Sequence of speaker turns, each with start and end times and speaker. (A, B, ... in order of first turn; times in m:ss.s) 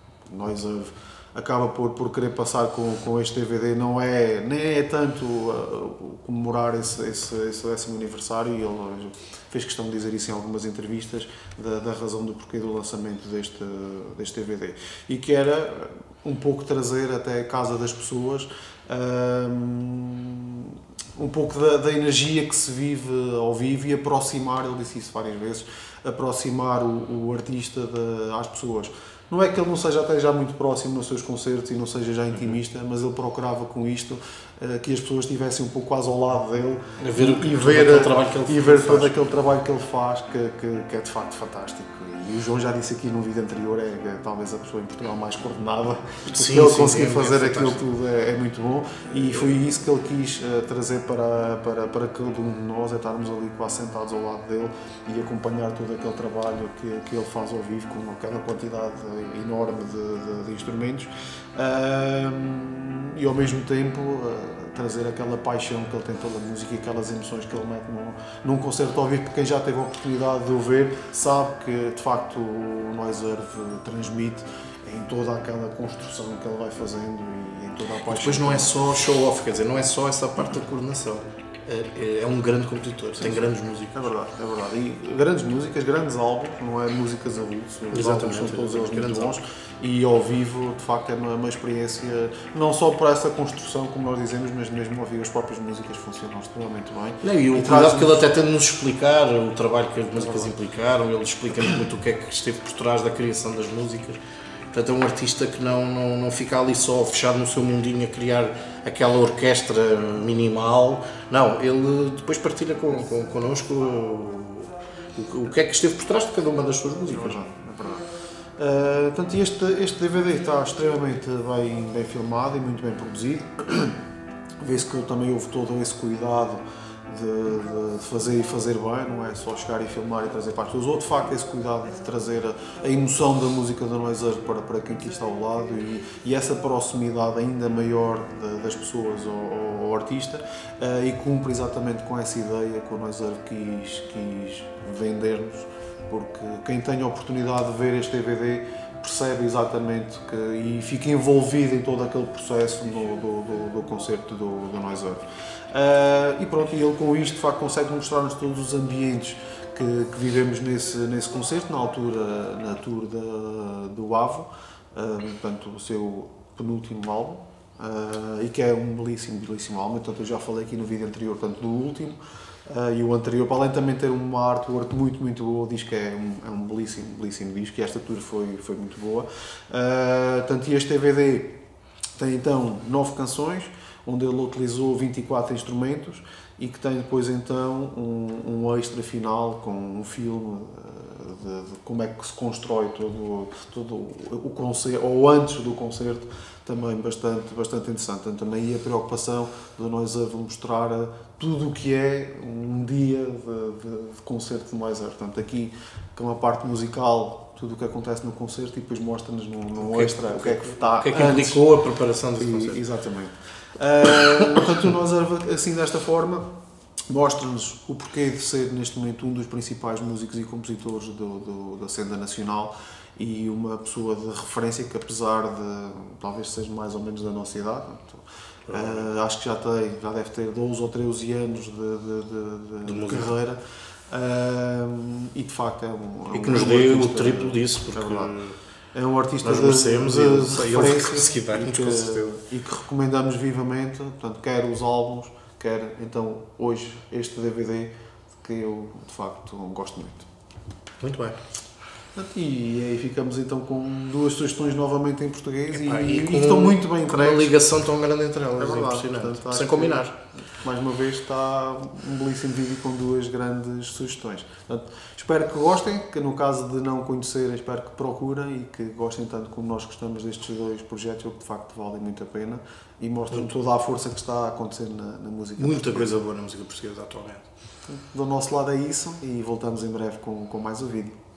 0:00.3-1:18.8 A
0:37.0-0:39.2 B
0:46.3-0:47.8 B
1:18.1-1:24.1 B
1:23.2-1:38.3 A
1:27.9-1:29.4 B
1:37.2-1:44.2 B
1:40.2-1:40.4 A
1:44.7-1:57.4 B
1:57.1-1:58.1 A
1:58.6-2:04.0 A
2:04.6-3:01.6 A
3:02.2-3:31.6 A
3:29.8-3:32.8 B
3:32.4-3:36.5 A
3:37.1-3:58.4 A
3:48.7-3:49.0 B
3:52.8-3:53.3 B
3:56.3-3:58.6 B
3:58.9-4:10.3 A
3:59.4-4:02.4 B
4:11.0-4:11.4 B
4:12.2-4:17.6 A
4:15.7-4:20.1 B
4:18.6-4:36.2 A
4:35.6-4:37.4 B
4:37.9-4:41.2 A